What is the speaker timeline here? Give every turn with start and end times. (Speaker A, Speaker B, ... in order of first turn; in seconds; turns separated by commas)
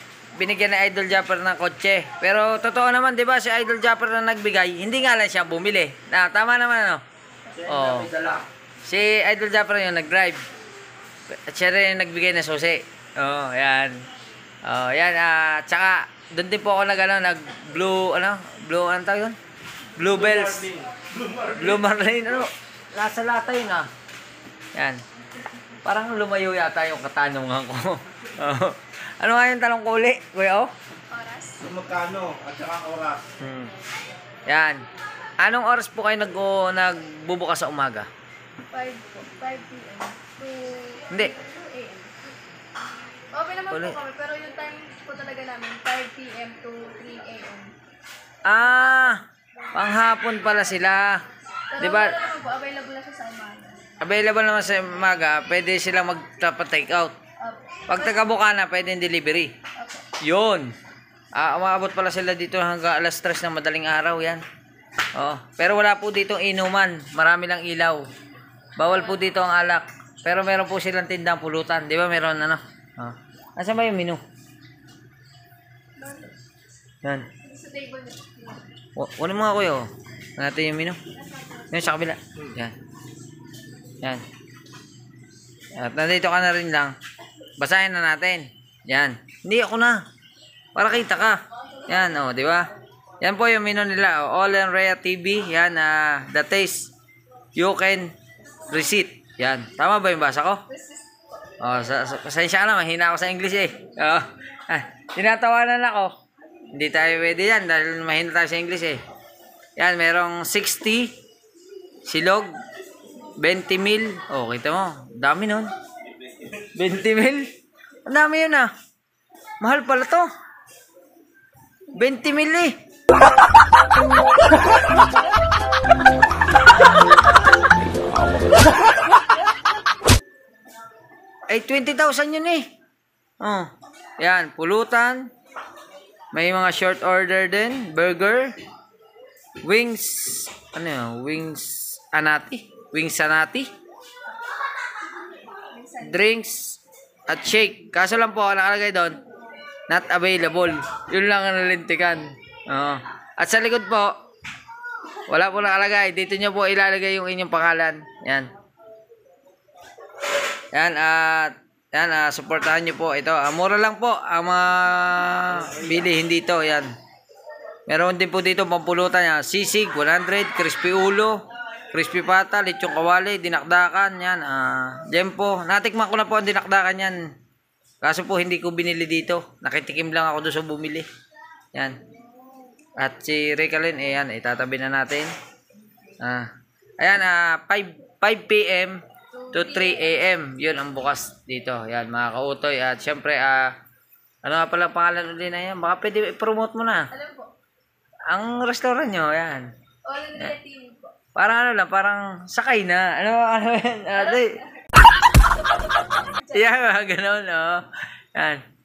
Speaker A: 0.4-7.0, Speaker B: 7.6-8.4, Speaker A: 7.6-8.1, Speaker A: 8.8-10.4, Speaker A: 11.5-14.0, Speaker A: 14.6-19.4, Speaker A: 20.0-20.7, Speaker B: 20.0-21.8, Speaker A: 21.6-23.9, Speaker A: 24.8-25.0, Speaker A: 25.8-30.7, Speaker C: 31.1-31.6, Speaker B: 31.6-33.2, Speaker A: 33.4-33.7, Speaker A: 34.5-34.8, Speaker A: 35.4-38.1, Speaker C: 38.7-42.2, Speaker C: 43.2-47.7, Speaker A: 43.7-44.0, Speaker A: 48.5-51.2, Speaker C: 48.7-49.2, Speaker C: 51.7-53.9, Speaker A: 51.8-52.2, Speaker A: 54.0-57.1, Speaker C: 57.4-58.2, Speaker A: 57.9-59.5, Speaker C: 59.8-60.1, Speaker A: 60.2-60.7, Speaker A: 61.4-64.4, Speaker A: 65.2-68.0, Speaker A: 68.8-74.2, Speaker C: 76.0-76.3, Speaker C: 77.4-78.6, Speaker A: 79.0-81.0, Speaker A: 81.7-82.8, Speaker A: 85.8-87.0, Speaker A: 87.6-90.0, Speaker A: 90.8-96.9, Speaker A: 97.5-98.1, Speaker A: 98.7-100.6, Speaker C: 100.7-101.2, Speaker A: 101.6-106.1, Speaker A: 106.7-109.0, Speaker A: 109.8-111.2, Speaker A: 112.1-112.5, Speaker A: 113.4-115.7, Speaker A: 116.5-117.5, Speaker A: 118.0-118.7, Speaker A: 119.6-120.3, Speaker A: 122.0-122.8, Speaker A: 131.5-132.7, Speaker A: 133.4-135.3, Speaker A: 136.3-138.6, Speaker A: 139.6-143.7, Speaker C: 145.6-146.2, Speaker A: 146.0-149.2, Speaker A: 149.9-154.2, Speaker A: 155.3-158.5, Speaker A: 160.7-166.9, Speaker B: 165.6-166.0, Speaker A: 167.9-177.2, Speaker A: 178.0-181.1, Speaker A: 183.0-185.3, Speaker A: 186.2-186.5, Speaker A: 187.0-189.0, Speaker C: 189.3-190.2, Speaker A: 189.5-193.7, Speaker A: 194.4-197.1, Speaker C: 197.1-197.5, Speaker A: 198.3-199.7, Speaker C: 200.1-201.2, Speaker A: 201.3-204.7, Speaker C: 204.3-204.9, Speaker A: 206.3-208.7